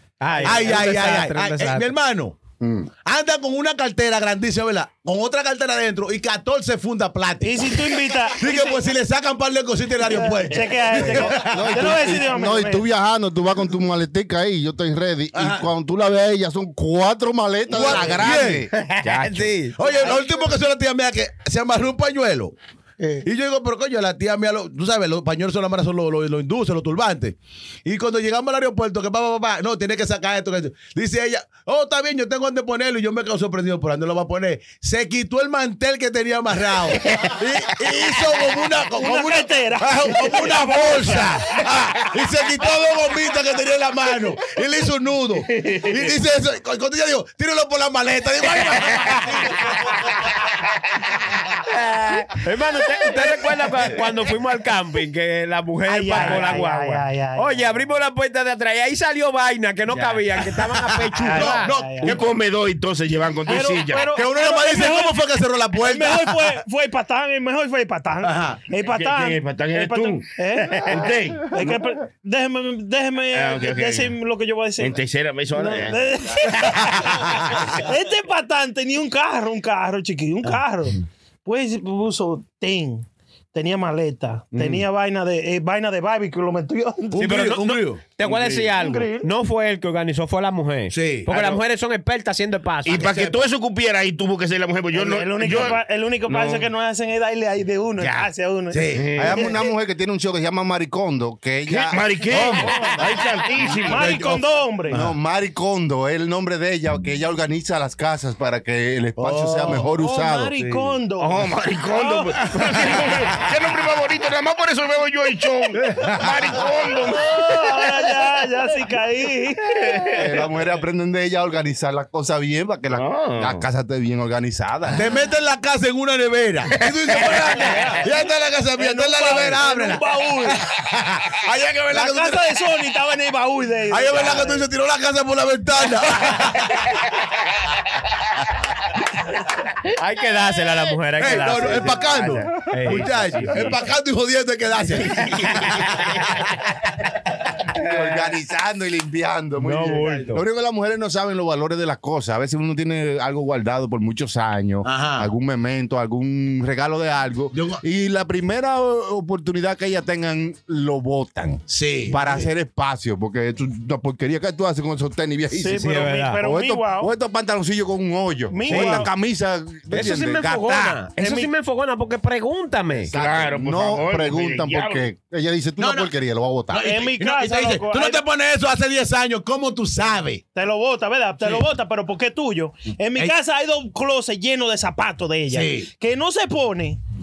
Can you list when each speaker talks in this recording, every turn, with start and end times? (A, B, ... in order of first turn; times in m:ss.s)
0:00.2-0:01.9 A
0:00.3-0:00.9 B
0:00.4-0:02.4 C
0:02.6-0:02.9 D
0:03.0-0:07.8 C
0:07.4-0:08.8 B
0:08.4-0:11.8 C
0:10.0-0:12.8 B
0:11.3-0:18.7 D
0:15.3-0:15.7 C
0:17.7-0:18.7 C
0:18.7-0:19.8 A
0:19.0-0:19.6 E
0:19.8-0:22.6 C
0:19.8-0:20.5 B
0:23.0-0:23.3 A
0:23.2-0:49.8 C
0:39.0-0:41.3 B
0:45.5-0:46.1 E
0:48.5-0:50.8 E
0:51.8-1:01.7 A
0:55.9-0:57.8 B
1:00.0-1:02.3 C
1:01.3-1:02.2 B
1:02.0-1:04.1 E
1:03.4-1:05.2 B
1:04.1-1:06.5 C
1:05.8-1:15.0 B
1:08.2-1:08.6 C
1:08.8-1:11.8 E
1:13.3-1:14.1 E
1:14.8-1:17.7 E
1:15.6-1:27.3 B
1:16.9-1:17.7 C
1:24.5-1:24.8 E
1:27.1-1:28.0 C
1:27.2-1:33.2 A
1:28.7-1:29.3 B
1:30.9-1:31.6 C
1:32.8-1:36.7 E
1:32.9-1:33.4 C
1:34.9-1:39.7 B
1:38.0-1:38.3 E
1:38.7-1:39.1 C
1:38.9-1:39.5 E
1:39.2-1:42.1 D
1:41.7-1:44.2 E
1:42.3-1:42.8 C
1:42.3-1:45.0 B
1:43.7-1:45.1 C
1:44.9-1:50.6 D
1:49.2-1:49.9 C
1:49.8-1:52.5 B
1:51.2-1:57.8 E
1:52.9-1:53.3 C
1:55.8-1:56.6 C
1:57.1-2:00.3 B
1:59.6-2:00.4 E
2:00.2-2:05.1 D
2:02.9-2:03.6 E
2:04.9-2:12.6 C
2:07.3-2:08.1 B
2:08.7-2:10.6 B
2:11.9-2:14.7 B
2:13.9-2:16.9 C
2:17.0-2:17.8 E
2:19.9-2:23.6 A
2:21.2-2:26.5 C
2:23.1-2:23.7 E
2:25.0-2:26.4 E
2:27.7-2:45.9 D
2:27.8-2:28.2 A
2:29.6-2:30.4 A
2:34.8-2:35.3 C
2:37.5-2:37.8 C
2:41.7-2:42.5 C
2:45.5-2:47.1 B
2:45.7-2:46.4 A
2:46.4-2:50.9 D
2:48.5-2:49.1 B
2:48.7-2:49.1 A
2:49.9-2:53.1 A
2:51.1-2:51.5 B
2:53.0-2:56.9 D
2:53.1-2:55.0 E
2:55.8-2:56.1 C
2:56.7-3:00.4 C
2:56.8-2:58.2 B
3:00.5-3:07.0 B
3:05.5-3:05.9 C